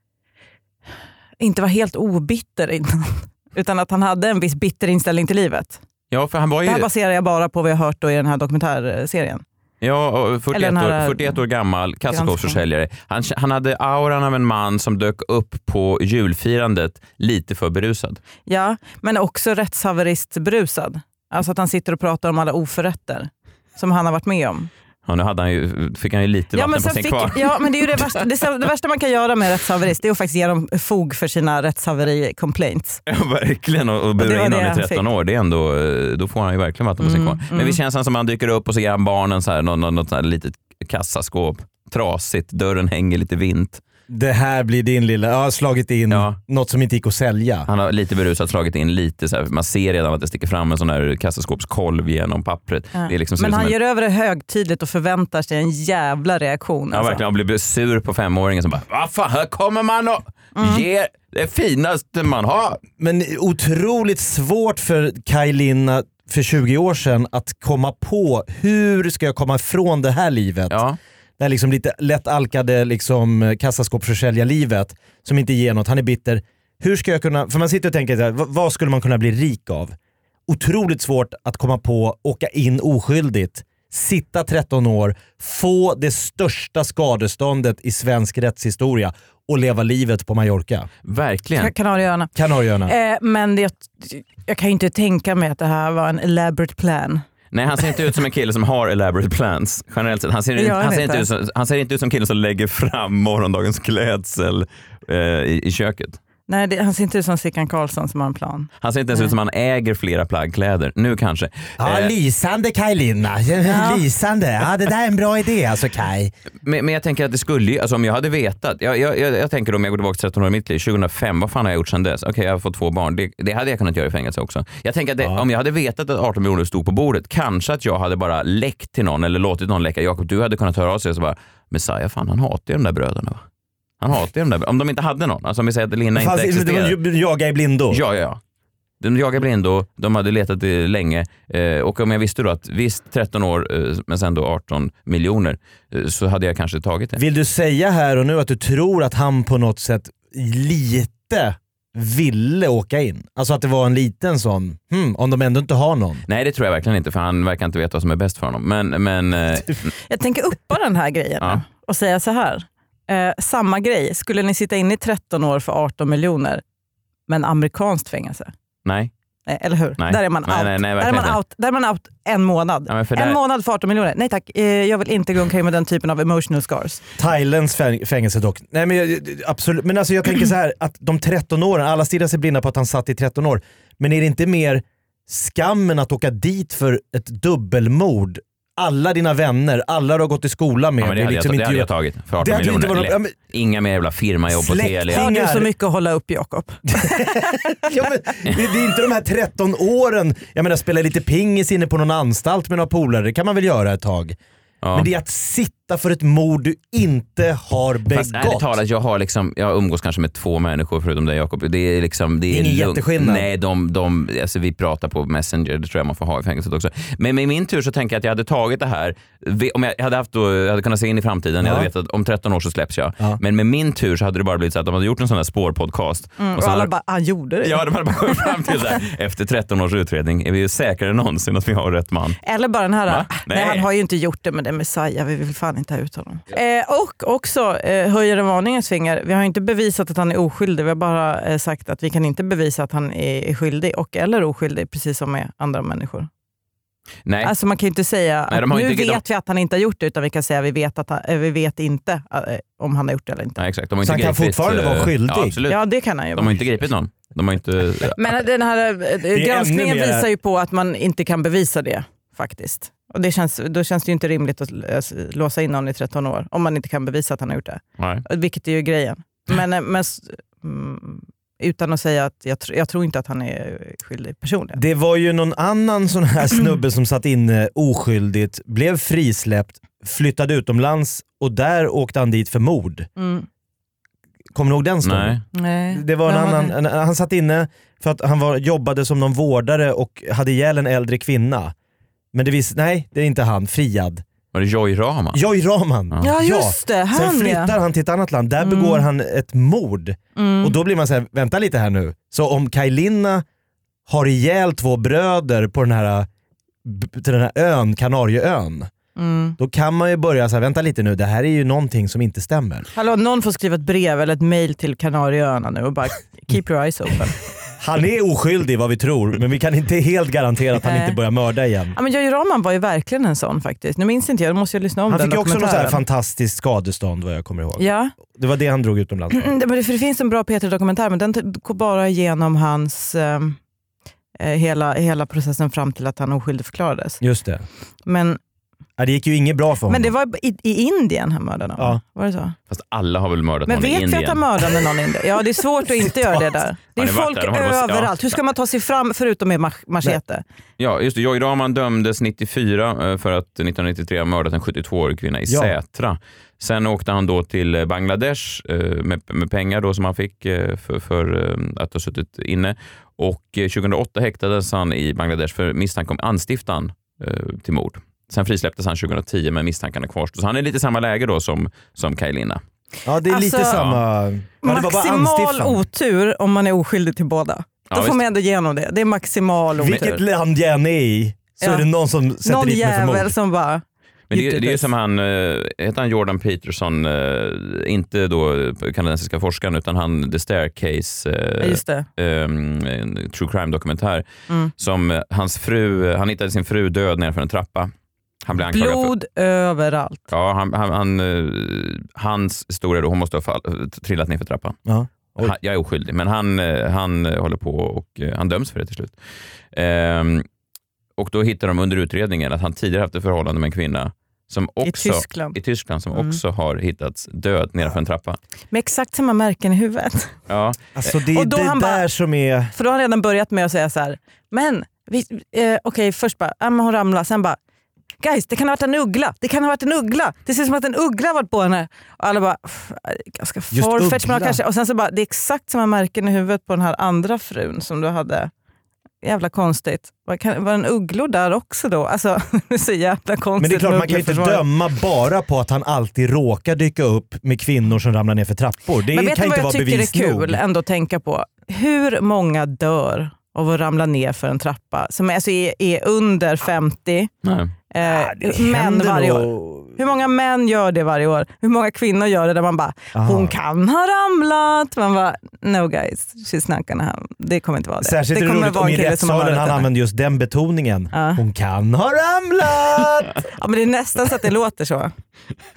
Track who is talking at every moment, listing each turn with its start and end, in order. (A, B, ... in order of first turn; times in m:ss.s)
0:01.4-0:05.8 A
0:06.1-0:06.8 B
0:06.6-0:09.4 A
0:09.8-0:18.2 B
0:10.5-0:11.4 A
0:12.1-0:12.6 A
0:18.4-0:24.7 A
0:25.0-0:28.0 B
0:26.5-0:33.0 A
0:33.0-0:43.8 B
0:34.2-0:35.0 A
0:37.0-0:37.8 A
0:44.1-0:47.7 C
0:46.1-0:46.4 B
0:47.7-0:53.7 B
0:52.9-0:57.2 A
0:56.9-1:02.8 B
1:00.6-1:00.8 A
1:03.0-1:10.8 C
1:10.7-1:11.0 B
1:11.4-1:19.9 C
1:20.5-1:30.9 C
1:31.0-1:31.7 B
1:31.6-1:32.3 A
1:32.3-1:32.9 C
1:32.8-1:37.2 A
1:37.5-1:46.2 B
1:40.6-1:41.2 A
1:46.5-1:49.3 A
1:48.8-1:52.1 B
1:51.8-1:56.3 C
1:53.6-1:54.0 A
1:56.6-2:13.4 B
2:14.0-2:17.0 B
2:16.2-2:18.0 C
2:17.9-2:18.4 B
2:19.0-2:27.2 B
2:27.2-2:36.2 C
2:36.3-2:39.9 B
2:40.1-2:46.6 A
2:47.3-2:48.5 A
2:48.8-2:49.1 B
2:49.5-2:57.0 A
2:50.0-2:51.4 B
2:52.9-2:53.4 B
2:57.2-3:13.3 C
3:11.0-3:15.3 B
3:14.5-3:15.7 C
3:15.1-3:17.7 A
3:16.9-3:24.4 C
3:24.8-3:25.1 B
3:24.9-3:28.8 C
3:28.1-3:46.9 B
3:32.5-3:33.5 C
3:41.6-3:41.9 C
3:46.4-3:48.9 A
3:47.6-3:52.4 B
3:52.4-4:06.3 A
3:53.1-3:53.8 B
4:07.2-4:07.5 B
4:07.4-4:13.6 A
4:08.5-4:09.2 B
4:13.6-4:15.8 B
4:14.0-4:15.6 C
4:15.7-4:16.6 A
4:16.3-4:18.2 B
4:18.2-4:34.8 A
4:19.3-4:20.3 C
4:34.7-4:43.1 C
4:43.2-4:43.4 A
4:44.5-4:45.4 C
4:45.0-4:45.4 B
4:45.5-4:46.7 A
4:45.9-4:51.7 C
4:52.3-4:54.2 C
4:54.5-4:55.4 B
4:55.3-5:03.4 C
4:56.2-4:57.7 A
4:58.6-4:59.0 A
5:00.4-5:00.8 A
5:04.1-5:06.3 C
5:06.8-5:08.9 C
5:09.2-5:09.6 A
5:09.6-5:12.9 C
5:12.9-5:17.4 A
5:17.8-5:21.9 C
5:20.8-5:21.2 A
5:21.9-5:26.0 A
5:25.1-5:29.5 C
5:27.8-5:28.1 A
5:29.3-5:33.6 A
5:34.4-5:37.2 A
5:37.2-5:37.6 C
5:38.0-5:38.4 A
5:39.0-5:40.1 C
5:39.9-5:42.6 A
5:42.7-5:44.4 B
5:43.7-5:50.4 A
5:47.0-5:48.3 B
5:50.8-6:12.6 B
5:55.5-5:55.7 C
6:13.0-6:15.8 C
6:13.3-6:13.8 A
6:13.7-6:14.0 B
6:14.6-6:20.2 A
6:17.9-6:18.2 B
6:19.8-6:23.3 C
6:21.6-6:21.8 A
6:22.4-6:24.8 A
6:24.3-6:34.2 B
6:31.6-6:32.1 A
6:34.8-6:37.9 B
6:38.4-6:39.1 B
6:38.7-6:40.3 A
6:40.3-6:44.8 B
6:44.8-6:45.5 C
6:45.4-6:49.2 B
6:49.7-6:50.4 B
6:51.2-6:58.4 B
6:54.8-6:55.6 A
6:56.1-6:56.4 A
6:58.7-7:00.4 A
7:00.5-7:00.8 B
7:00.9-7:02.7 C
7:01.3-7:02.0 A
7:02.7-7:07.6 A
7:08.2-7:18.5 A
7:13.7-7:14.6 C
7:19.2-7:24.6 A
7:23.6-7:30.6 C
7:29.1-7:37.3 A
7:37.4-7:37.7 B
7:37.9-7:49.9 A
7:38.0-7:40.0 C
7:43.1-7:43.5 C
7:48.0-7:53.4 C
7:51.1-7:51.4 A
7:53.5-7:55.1 A